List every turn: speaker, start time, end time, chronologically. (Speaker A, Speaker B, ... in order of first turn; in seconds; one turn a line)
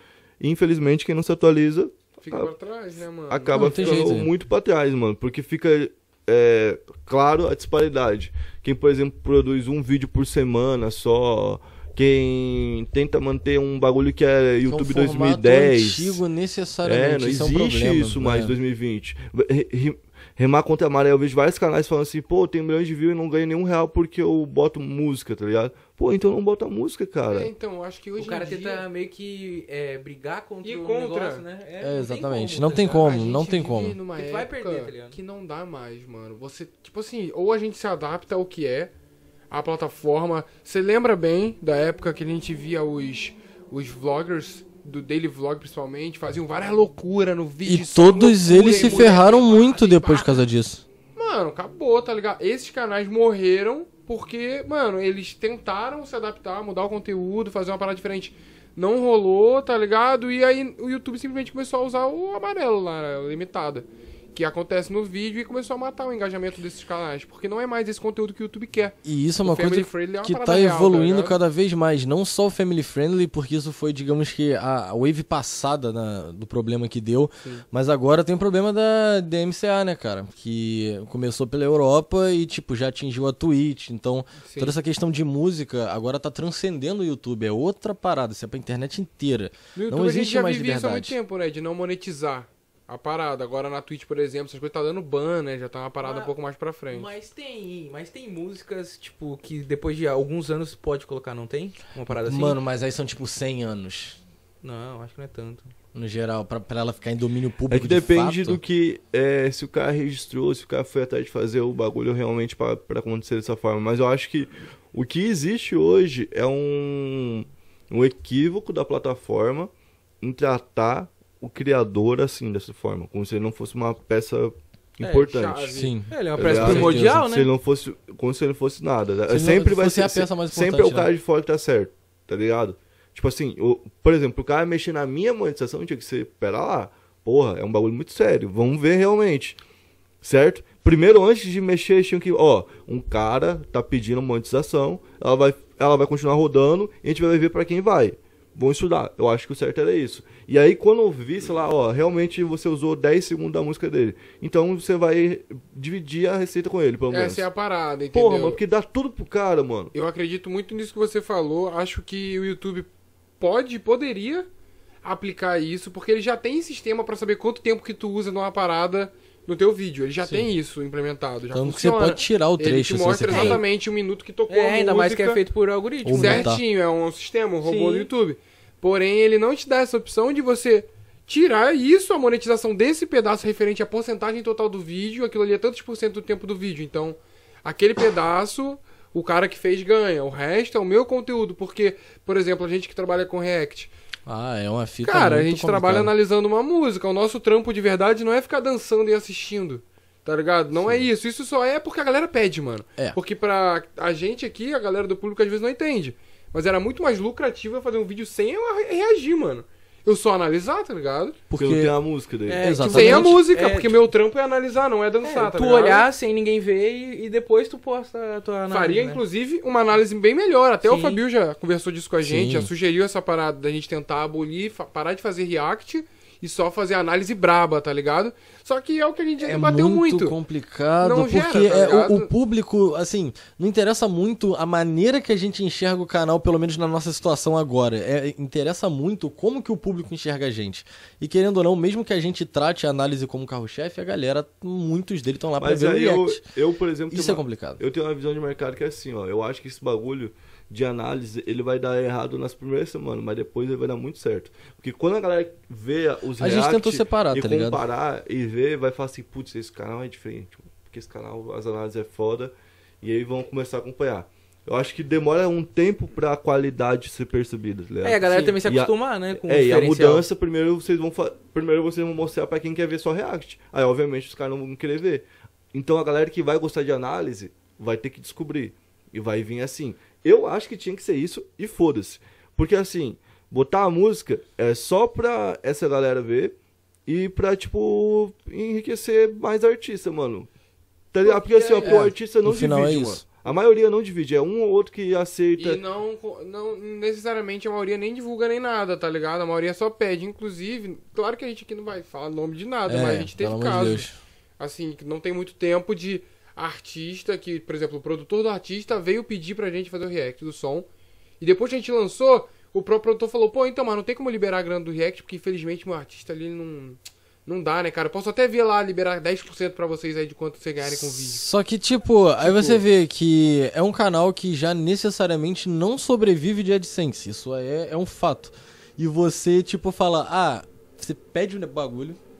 Speaker A: 0.4-2.5
Speaker B: 2.2-4.1
Speaker A: 3.3-16.2
Speaker C: 3.5-4.3
Speaker C: 14.7-18.5
Speaker A: 16.8-27.5
Speaker B: 27.3-28.9
Speaker D: 28.2-33.2
Speaker B: 30.6-31.4
Speaker C: 31.8-34.0
Speaker B: 32.9-38.9
Speaker D: 34.1-35.2
Speaker B: 39.5-50.4
Speaker C: 47.6-50.8
Speaker D: 48.6-49.3
Speaker B: 51.2-71.4
Speaker C: 69.0-91.2
Speaker B: 84.4-84.8
Speaker B: 89.8-97.1
Speaker D: 96.0-96.3
Speaker D: 96.9-102.6
Speaker C: 102.1-104.2
Speaker D: 104.6-105.7
Speaker C: 105.9-108.6
Speaker A: 107.7-125.8
Speaker D: 125.0-125.3
Speaker B: 125.2-126.8
Speaker C: 125.7-127.2
Speaker D: 126.1-127.5
Speaker A: 126.3-139.6
Speaker C: 129.3-131.1
Speaker A: 140.2-157.5
Speaker B: 157.1-158.6
Speaker A: 158.1-159.9
Speaker B: 159.9-164.5
Speaker B: 165.0-175.4
Speaker C: 170.2-170.5
Speaker C: 171.5-173.6
Speaker D: 173.3-173.6
Speaker D: 174.5-176.5
Speaker C: 176.0-176.6
Speaker B: 176.2-193.9
Speaker D: 177.6-178.1
Speaker C: 194.3-196.1
Speaker B: 195.0-211.4
Speaker C: 211.5-212.0
Speaker A: 211.6-212.7
Speaker D: 212.5-214.0
Speaker C: 212.6-213.5
Speaker B: 212.9-216.1
Speaker D: 215.2-219.2
Speaker B: 218.7-230.4
Speaker D: 220.8-221.2
Speaker C: 222.2-222.7
Speaker C: 229.4-246.4
Speaker B: 231.0-232.3
Speaker A: 245.6-286.6
Speaker C: 247.1-247.8
Speaker C: 256.4-257.8
Speaker D: 268.0-270.3
Speaker B: 268.3-268.6
Speaker A: 287.1-290.5
Speaker A: 291.1-295.8
Speaker B: 291.2-292.1
Speaker C: 292.0-293.2
Speaker B: 295.6-304.1
Speaker C: 302.9-304.1
Speaker B: 304.6-310.9
Speaker B: 311.4-321.4
Speaker C: 320.8-332.2
Speaker B: 322.4-322.8